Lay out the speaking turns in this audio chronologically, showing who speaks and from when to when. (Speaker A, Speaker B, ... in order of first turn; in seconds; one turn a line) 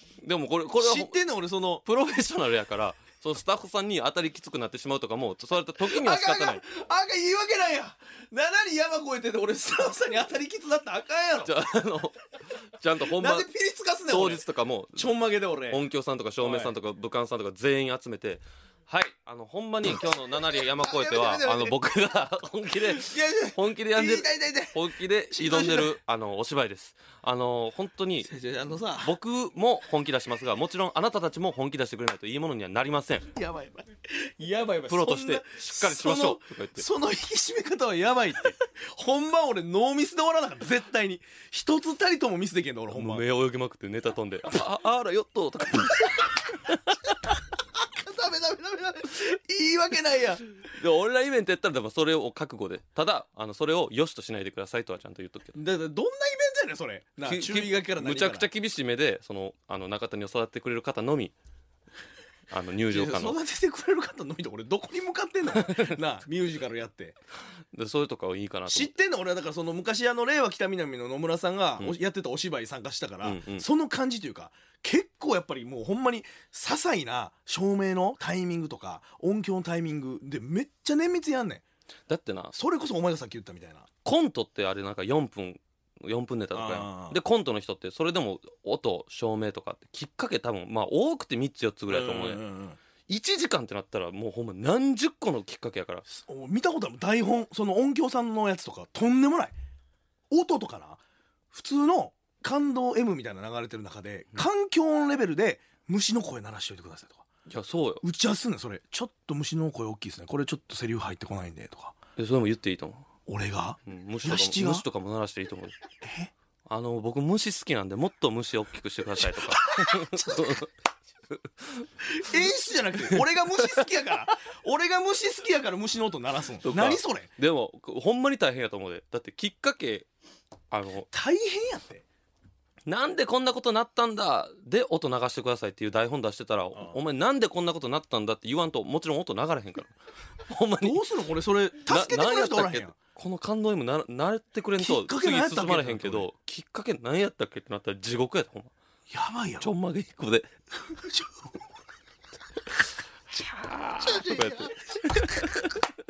Speaker A: 0.2-1.1
Speaker B: 0.8-1.8
Speaker A: 1.8-6.6
Speaker B: 5.8-11.5
Speaker A: 11.4-13.5
Speaker B: 13.1-14.4
Speaker A: 14.1-15.1
Speaker B: 14.9-15.8
Speaker A: 15.7-28.3
Speaker B: 16.4-16.7
Speaker B: 20.6-21.8
Speaker B: 22.8-25.9
Speaker B: 28.2-29.1
Speaker A: 29.0-33.3
Speaker B: 33.3-43.2
Speaker A: 34.9-36.9
Speaker A: 42.9-47.0
Speaker B: 47.8-50.4
Speaker A: 50.6-55.6
Speaker B: 55.5-58.5
Speaker A: 57.2-61.3
Speaker A: 62.5-63.4
Speaker B: 62.9-67.2
Speaker A: 65.5-66.0
Speaker A: 67.7-68.9
Speaker B: 68.7-81.6
Speaker A: 73.2-73.6
Speaker A: 82.1-82.5
Speaker B: 82.5-83.9
Speaker A: 84.0-92.4
Speaker B: 86.5-87.2
Speaker B: 91.9-92.8
Speaker A: 93.1-96.0
Speaker B: 96.1-99.5
Speaker B: 100.3-101.0
Speaker B: 101.5-107.3
Speaker A: 107.5-108.0
Speaker B: 108.0-112.0
Speaker A: 112.2-113.0
Speaker B: 113.3-114.8
Speaker A: 113.9-115.8
Speaker B: 116.0-116.3
Speaker A: 116.7-120.7
Speaker B: 119.2-120.6
Speaker A: 121.3-121.9
Speaker B: 122.0-127.3
Speaker A: 126.6-130.1
Speaker A: 130.7-131.1
Speaker B: 131.1-132.0
Speaker A: 132.8-139.9
Speaker A: 140.5-141.0
Speaker B: 140.8-142.9
Speaker A: 141.8-148.7
Speaker B: 144.8-146.3
Speaker B: 149.1-149.7
Speaker A: 149.6-150.5
Speaker B: 150.9-151.5
Speaker B: 153.3-155.7
Speaker A: 153.8-155.8